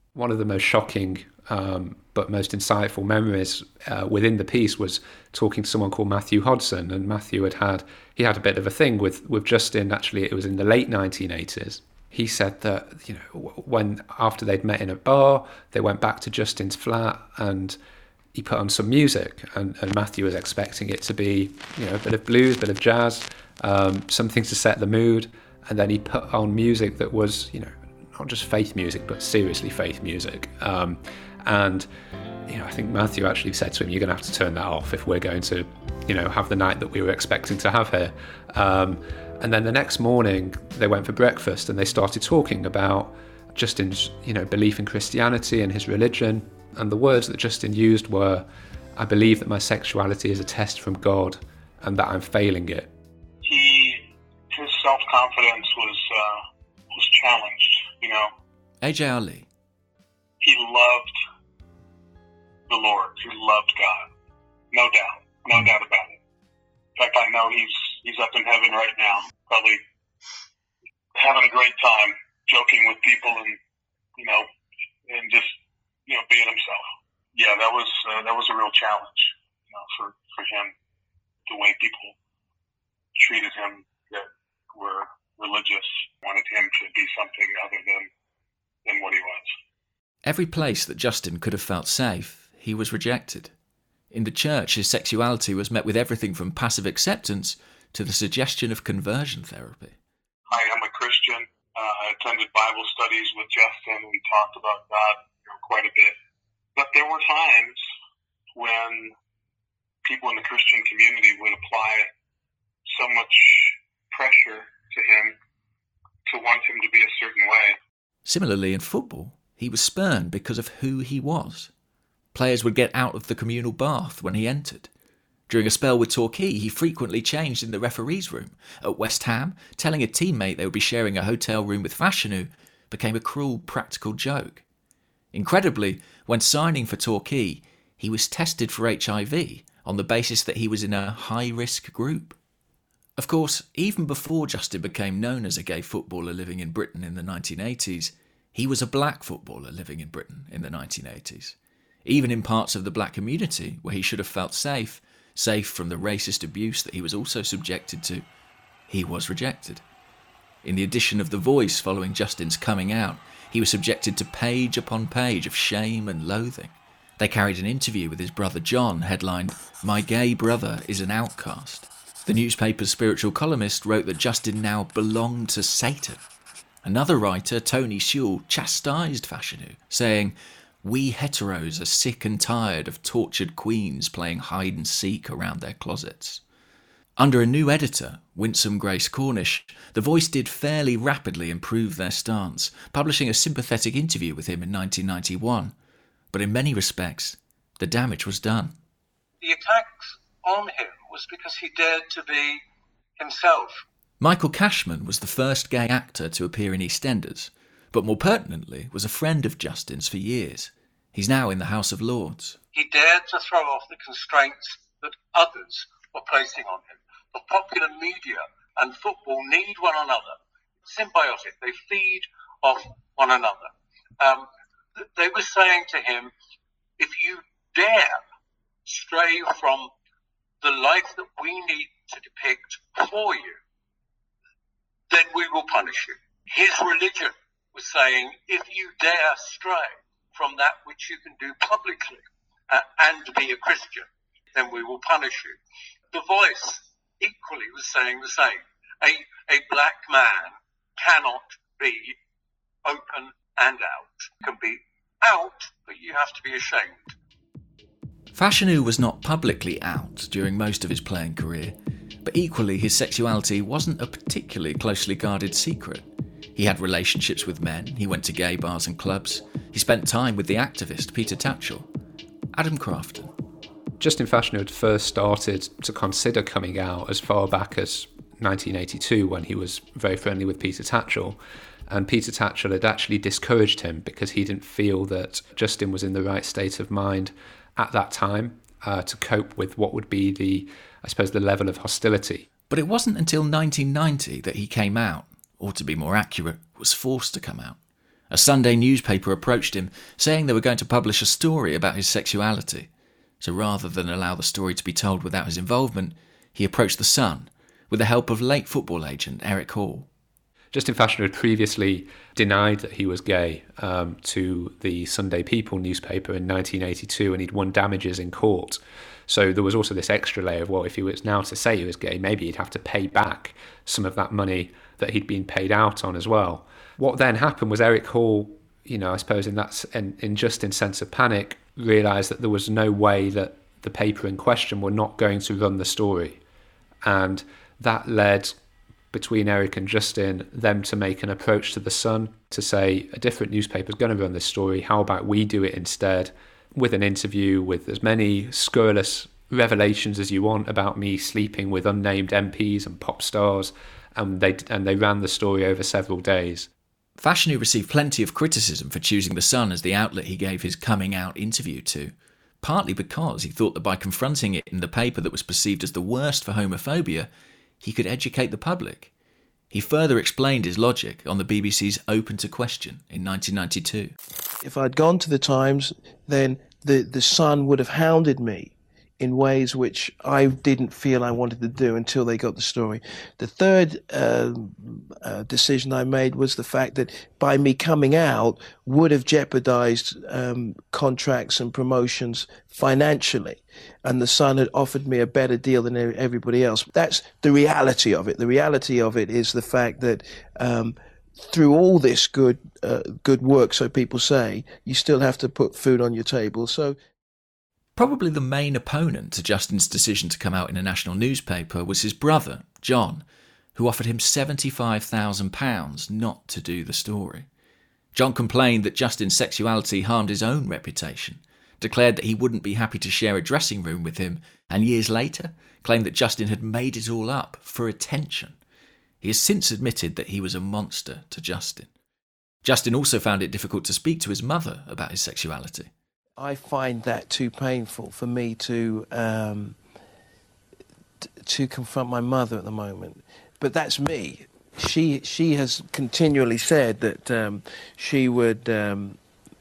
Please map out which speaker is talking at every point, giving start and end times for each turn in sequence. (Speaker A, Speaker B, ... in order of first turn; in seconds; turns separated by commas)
Speaker A: 0.2-17.8, Speaker A: 18.3-31.9, Speaker A: 32.5-52.9, Speaker B: 53.5-58.3, Speaker C: 58.8-59.5, Speaker B: 60.4-61.1, Speaker B: 62.7-64.0, Speaker B: 64.7-66.2, Speaker B: 67.0-69.8, Speaker B: 71.2-73.6, Speaker B: 74.2-74.5, Speaker B: 75.1-75.5, Speaker B: 76.1-80.7, Speaker B: 81.5-82.2, Speaker B: 83.2-88.1, Speaker B: 88.8-89.5, Speaker C: 90.2-93.5, Speaker C: 94.1-100.0, Speaker B: 100.5-106.2, Speaker B: 106.8-107.8, Speaker B: 108.5-109.1, Speaker B: 110.0-112.1, Speaker B: 112.9-115.4, Speaker B: 116.3-117.8, Speaker C: 118.2-121.7, Speaker C: 122.3-124.9, Speaker C: 125.5-134.6, Speaker C: 135.3-142.4, Speaker C: 143.2-158.2, Speaker C: 158.9-159.8, Speaker C: 160.6-176.2, Speaker C: 176.8-186.4, Speaker C: 187.2-195.8, Speaker C: 196.3-198.8, Speaker D: 199.4-202.6, Speaker D: 203.2-203.8, Speaker C: 204.2-212.6, Speaker D: 212.7-226.3, Speaker D: 227.0-228.2, Speaker D: 228.9-229.9, Speaker D: 230.6-233.6, Speaker D: 235.1-245.6, Speaker D: 246.1-252.2, Speaker D: 252.8-257.2, Speaker C: 258.4-271.9, Speaker C: 272.5-273.3, Speaker A: 274.0-292.5, Speaker C: 292.7-297.8, Speaker C: 298.3-302.9, Speaker C: 303.4-310.1, Speaker A: 310.7-336.4, Speaker A: 337.0-338.6, Speaker A: 339.1-356.7, Speaker C: 357.2-367.3, Speaker C: 367.8-369.1, Speaker C: 369.7-374.1, Speaker E: 374.6-407.0, Speaker C: 408.0-417.5, Speaker C: 418.1-428.6, Speaker C: 429.2-431.9, Speaker C: 432.6-435.9, Speaker E: 436.4-439.8, Speaker E: 441.2-449.2